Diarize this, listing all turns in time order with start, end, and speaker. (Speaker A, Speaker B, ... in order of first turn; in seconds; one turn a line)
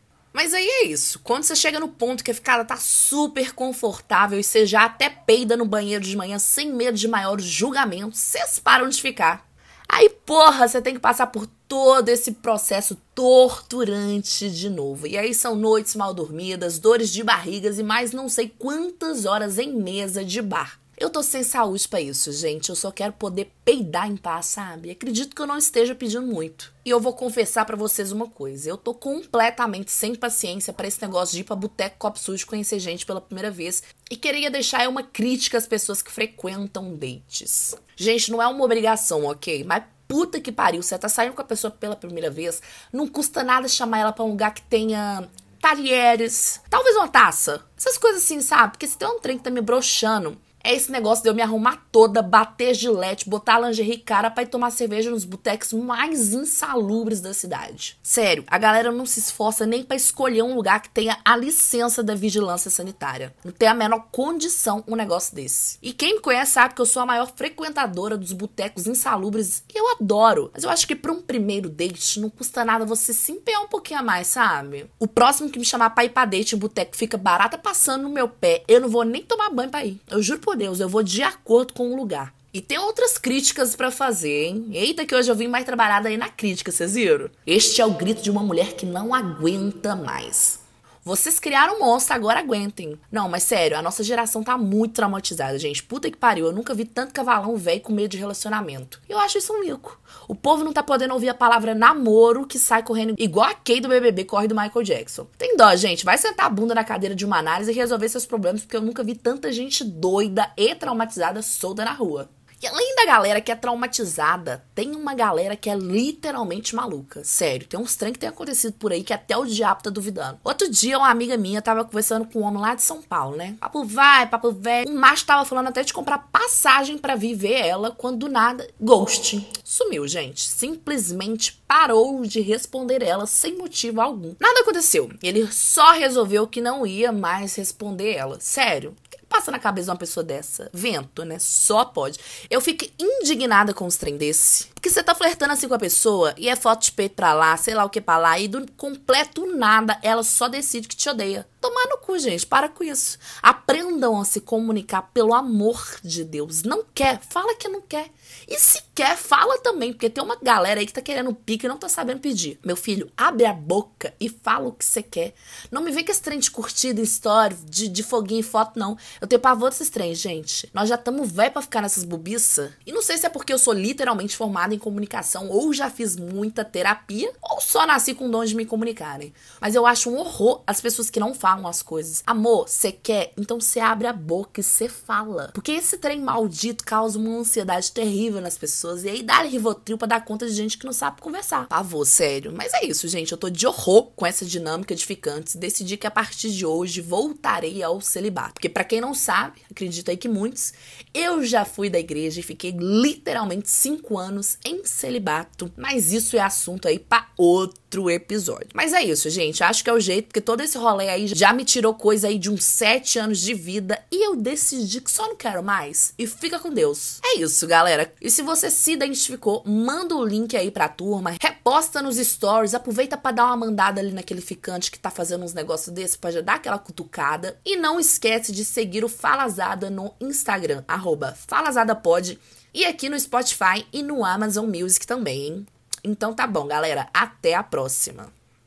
Speaker A: 0.3-238.3